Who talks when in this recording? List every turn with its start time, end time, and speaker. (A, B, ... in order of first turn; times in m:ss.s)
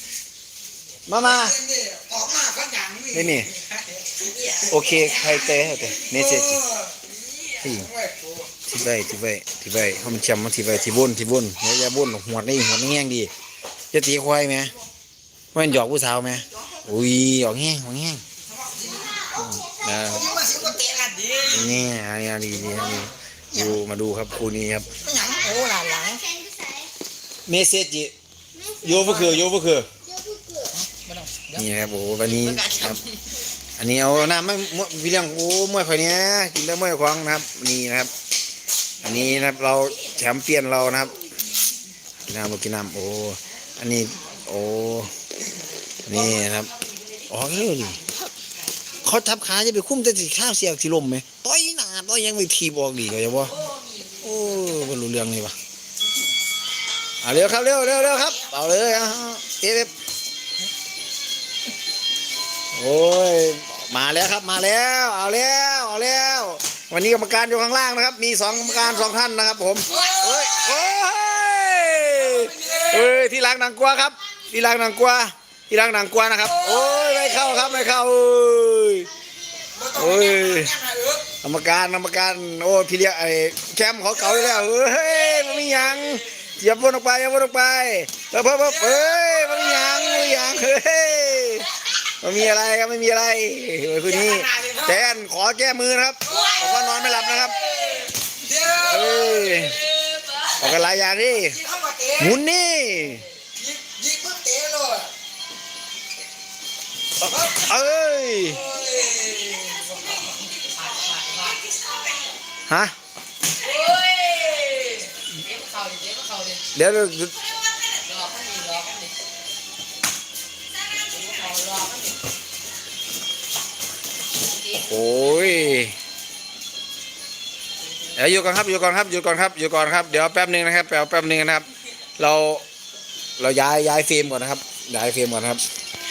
0:01.1-0:01.6 A
0:01.2-0:08.5 B
0:03.1-0:03.5 A
0:04.7-0:06.6 A
0:07.6-0:07.9 A
0:08.7-0:13.3 A
0:13.9-0:14.7 A
0:15.5-0:18.2 A
0:18.5-0:19.3 B
0:19.4-0:20.3 A
0:20.0-0:21.8 B
0:21.5-0:24.9 A
0:23.5-0:23.8 B
0:25.0-0:26.3 B
0:26.2-0:26.9 C
0:27.5-0:28.1 A
0:28.8-0:29.9 A
0:30.1-0:30.7 C
0:30.9-0:31.5 B
0:31.5-0:33.0 A
0:33.8-0:38.1 A
0:39.0-0:41.2 A
0:42.3-0:45.1 A
0:46.0-0:46.7 A
0:47.3-0:48.0 A
0:49.0-0:53.6 A
0:54.2-0:55.6 A
0:57.2-0:59.9 A
0:58.2-0:58.6 B
1:02.8-1:19.1 A
1:09.9-1:10.9 B
1:11.9-1:13.1 B
1:16.4-1:17.6 B
1:19.1-1:19.9 C
1:19.8-1:21.3 B
1:19.9-1:20.7 A
1:21.4-1:37.6 A
1:28.6-1:29.8 B
1:34.0-1:35.0 B
1:36.3-1:39.8 B
1:38.8-1:39.8 A
1:40.6-1:41.6 A
1:41.5-1:42.4 B
1:42.2-1:43.3 A
1:43.6-1:45.1 B
1:47.2-1:47.7 B
1:47.2-1:48.6 A
1:48.4-1:50.3 B
1:50.5-1:51.7 D
1:52.7-1:52.9 A
1:53.6-1:56.6 D
1:56.7-1:57.3 A
1:58.0-1:59.1 D
2:01.1-2:02.2 D
2:04.4-2:04.9 D
2:04.8-2:06.0 A
2:08.2-2:11.7 A
2:12.2-2:12.6 A
2:13.4-2:15.6 A